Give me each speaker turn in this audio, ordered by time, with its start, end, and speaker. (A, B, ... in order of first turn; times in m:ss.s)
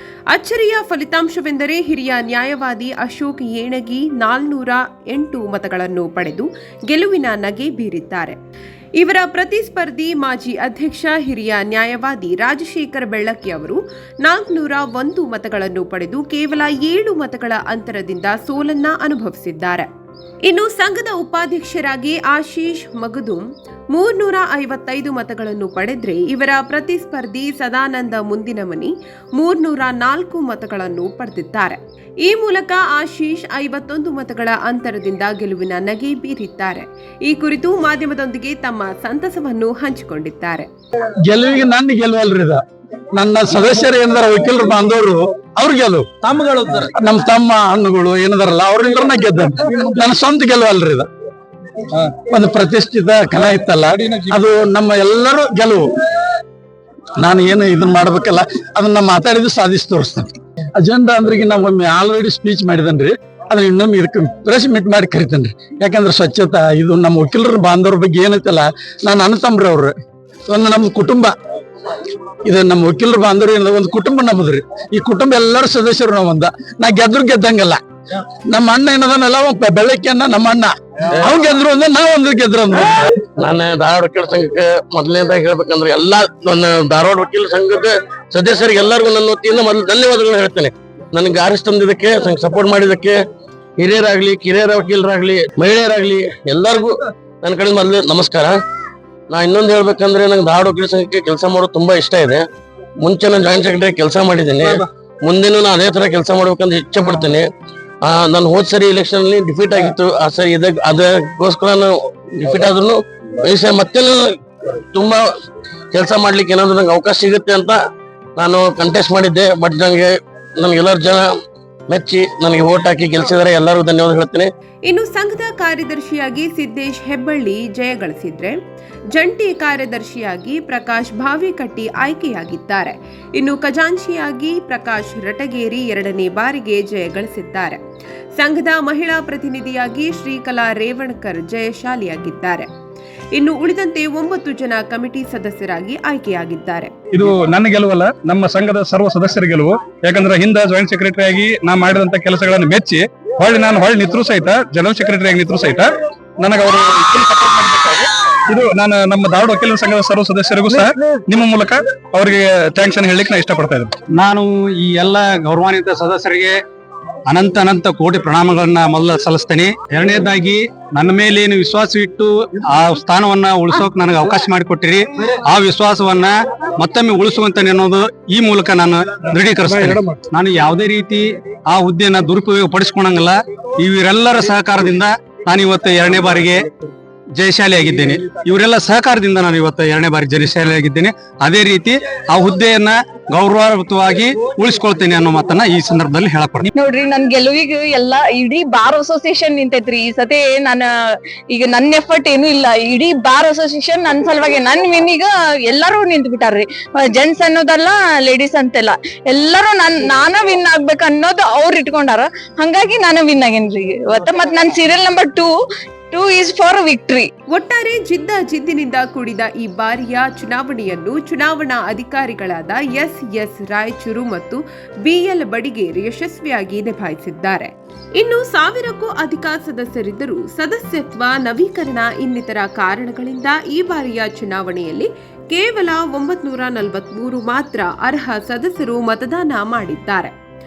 0:00.3-0:08.4 A
0:09.0-0:19.9 A
0:20.5-0:40.7 A
0:41.2-0:42.6 B
0:43.2-0:46.1 B
0:46.2-0:46.9 C
0:46.9-0:51.1 B
0:52.1-0:55.8 B
0:57.2-1:09.9 B
1:10.5-1:11.3 B
1:11.9-1:17.8 B
1:18.5-1:23.1 B
1:23.4-1:33.2 D
1:33.8-1:38.6 D
1:39.3-1:42.4 D
1:43.0-1:47.5 D
1:48.0-1:55.2 D
1:55.9-1:57.8 D
1:58.4-2:01.3 D
2:01.9-2:04.5 D
2:04.9-2:08.6 A
2:09.1-2:17.8 A
2:18.4-2:22.7 A
2:23.3-2:26.9 A
2:27.1-2:35.9 E
2:36.4-2:43.9 E
2:44.1-2:46.6 C
2:47.3-3:06.7 C
3:07.4-3:16.7 C
3:16.8-3:35.5 F
3:36.1-3:37.3 F
3:37.5-4:00.3 A